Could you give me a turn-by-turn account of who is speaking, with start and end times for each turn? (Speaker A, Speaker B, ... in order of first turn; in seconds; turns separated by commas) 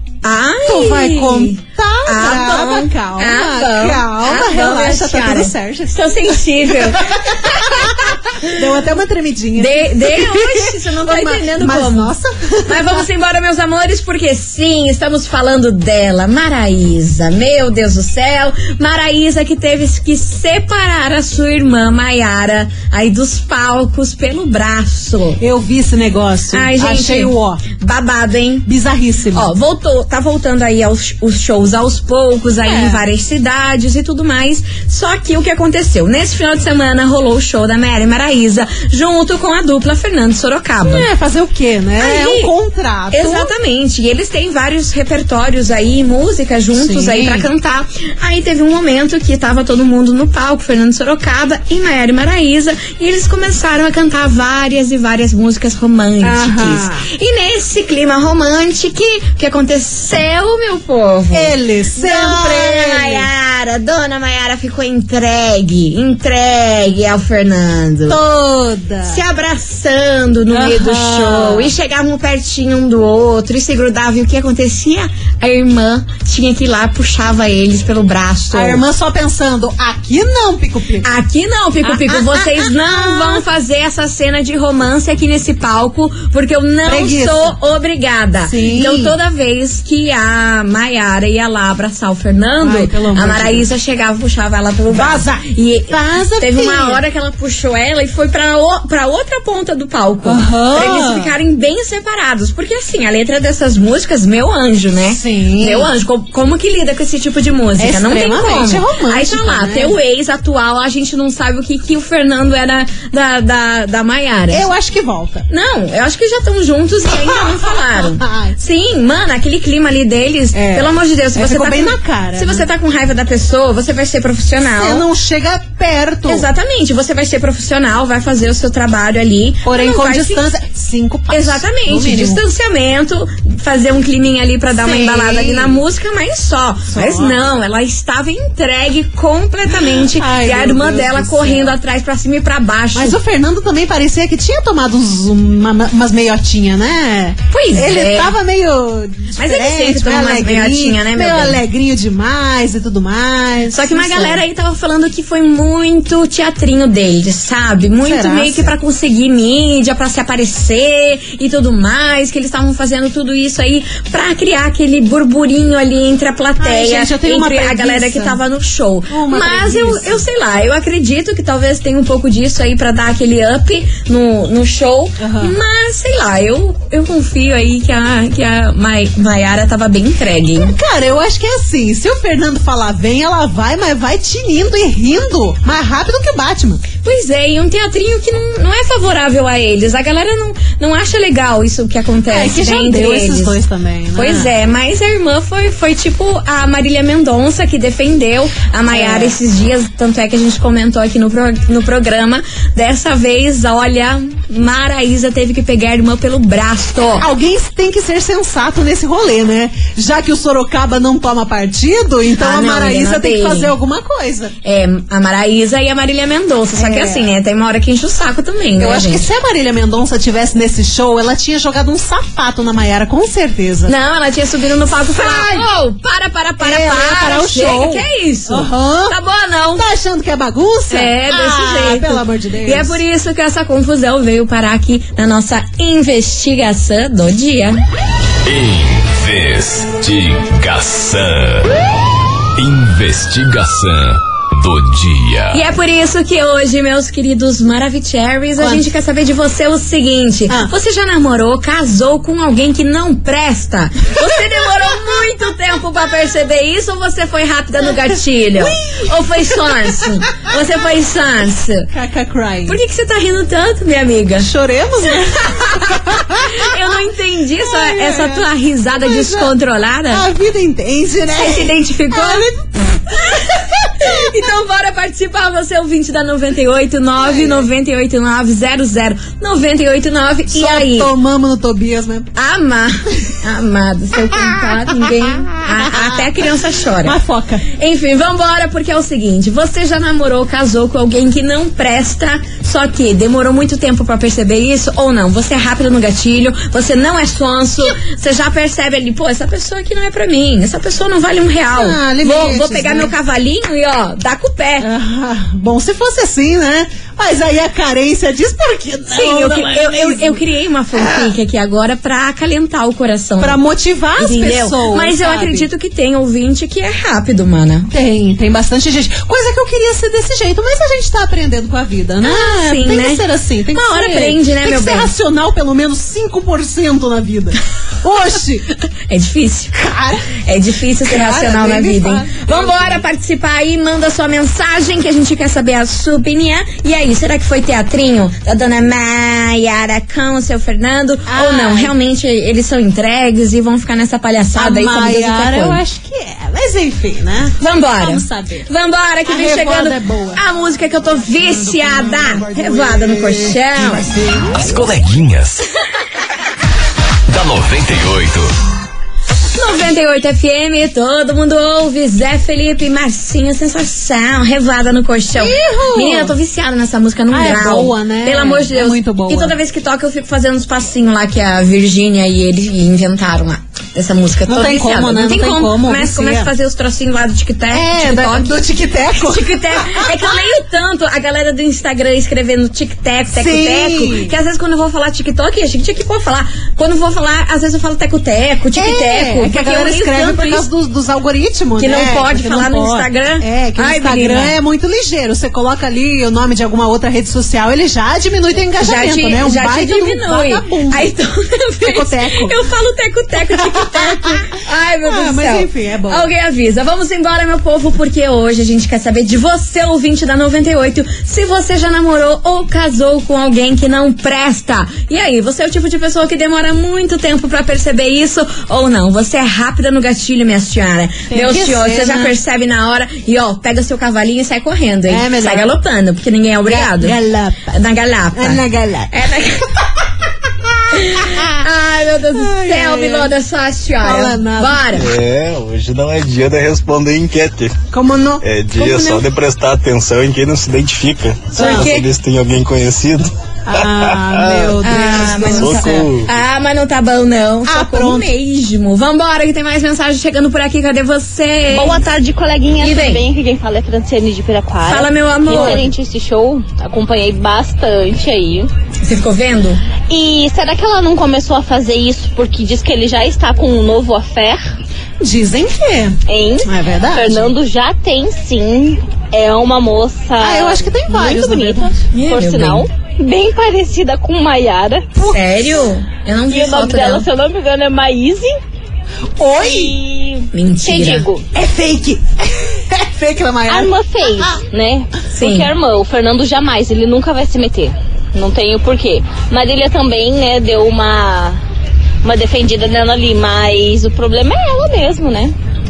Speaker A: 0.2-8.6, Speaker B: 0.7-13.1, Speaker A: 9.6-12.1, Speaker A: 12.7-25.4, Speaker B: 25.4-27.6, Speaker A: 26.5-28.7, Speaker B: 28.7-29.5, Speaker A: 29.3-41.1, Speaker B: 32.6-33.0, Speaker B: 40.8-43.5, Speaker A: 42.0-42.5, Speaker A: 43.1-68.2, Speaker B: 46.7-47.5, Speaker B: 56.2-57.1, Speaker B: 61.3-63.3, Speaker B: 68.1-69.2, Speaker A: 69.1-78.8, Speaker B: 70.5-71.7, Speaker B: 78.5-81.1, Speaker A: 81.0-114.7, Speaker B: 81.8-83.4, Speaker B: 86.8-87.6, Speaker B: 88.4-89.2, Speaker B: 92.6-93.7, Speaker B: 94.9-97.0, Speaker B: 100.2-101.3, Speaker B: 105.0-105.9, Speaker B: 107.8-110.0, Speaker B: 114.5-115.5, Speaker A: 115.5-125.1, Speaker B: 117.3-118.6, Speaker B: 120.5-122.7, Speaker B: 124.6-126.5, Speaker A: 126.3-130.4, Speaker B: 129.7-132.4, Speaker A: 131.3-143.2, Speaker B: 134.7-135.8, Speaker B: 136.9-137.4, Speaker B: 139.7-141.8, Speaker B: 142.9-154.4, Speaker A: 147.5-148.3, Speaker A: 149.3-151.6, Speaker A: 153.7-180.8, Speaker B: 158.0-158.7, Speaker B: 166.6-168.4, Speaker B: 169.1-170.2, Speaker B: 175.2-175.6, Speaker B: 180.6-186.8, Speaker A: 187.0-193.6, Speaker B: 192.3-194.5, Speaker A: 194.2-207.3, Speaker B: 198.9-199.4, Speaker B: 207.2-214.6, Speaker A: 212.3-213.7, Speaker A: 214.6-219.3, Speaker B: 216.8-217.3, Speaker B: 218.8-223.9, Speaker A: 223.9-229.9, Speaker B: 225.1-225.7, Speaker B: 226.6-229.2, Speaker B: 229.8-233.0, Speaker A: 230.9-237.8, Speaker C: 238.4-241.7, Speaker C: 242.6-245.6, Speaker A: 245.5-261.9, Speaker B: 248.6-248.9, Speaker B: 258.6-260.6, Speaker B: 261.9-262.8, Speaker A: 262.7-264.5, Speaker B: 264.4-266.8, Speaker A: 265.5-270.3, Speaker B: 267.6-269.5, Speaker B: 270.1-274.2, Speaker A: 271.3-272.5, Speaker A: 273.2-281.1, Speaker B: 277.2-277.7, Speaker B: 280.5-282.3, Speaker A: 282.4-287.2, Speaker B: 284.3-286.5, Speaker B: 287.0-287.6, Speaker A: 287.7-304.9, Speaker B: 301.7-303.1, Speaker B: 304.8-310.4, Speaker A: 309.1-313.6, Speaker B: 310.9-311.3, Speaker B: 313.4-315.7, Speaker A: 314.2-317.9, Speaker B: 317.9-328.7, Speaker A: 322.2-323.2, Speaker A: 323.7-325.1, Speaker A: 329.1-329.8, Speaker B: 329.7-330.3, Speaker A: 330.4-345.8, Speaker B: 331.0-333.1, Speaker B: 341.3-341.9, Speaker B: 344.6-348.7, Speaker A: 347.6-354.1, Speaker B: 349.2-350.4, Speaker C: 354.4-355.6, Speaker C: 357.3-358.5, Speaker A: 359.6-378.5, Speaker B: 365.4-366.4, Speaker B: 367.3-369.6, Speaker B: 374.5-376.5, Speaker B: 377.7-380.6, Speaker A: 379.2-390.7, Speaker B: 383.3-384.3, Speaker B: 388.8-401.1, Speaker A: 391.8-394.6, Speaker A: 398.8-427.2, Speaker B: 401.8-402.6, Speaker B: 403.4-406.3, Speaker B: 421.3-422.4, Speaker B: 425.1-425.7, Speaker B: 426.7-427.7, Speaker A: 427.7-429.7, Speaker B: 428.3-429.1, Speaker A: 430.9-435.1, Speaker B: 431.2-431.6, Speaker B: 432.3-433.3, Speaker B: 434.0-435.0, Speaker D: 434.9-437.8, Speaker B: 437.9-438.4, Speaker D: 438.4-443.3, Speaker A: 438.8-439.2, Speaker B: 441.6-442.0, Speaker A: 441.6-442.1, Speaker B: 443.7-446.1, Speaker D: 443.9-446.3, Speaker A: 444.8-452.0, Speaker B: 447.7-448.3, Speaker E: 451.7-458.7, Speaker A: 452.8-453.2, Speaker A: 454.8-455.9, Speaker B: 455.5-455.9, Speaker A: 459.0-459.8, Speaker E: 460.1-464.7, Speaker B: 465.2-467.5, Speaker E: 466.3-475.1, Speaker B: 470.4-471.9, Speaker A: 472.1-472.9, Speaker B: 475.1-475.8, Speaker A: 475.3-477.3, Speaker E: 476.5-478.6, Speaker B: 479.4-480.0, Speaker E: 479.5-481.5, Speaker A: 480.5-481.3, Speaker B: 481.5-484.6, Speaker E: 483.7-491.6, Speaker A: 485.3-485.7, Speaker E: 492.2-495.6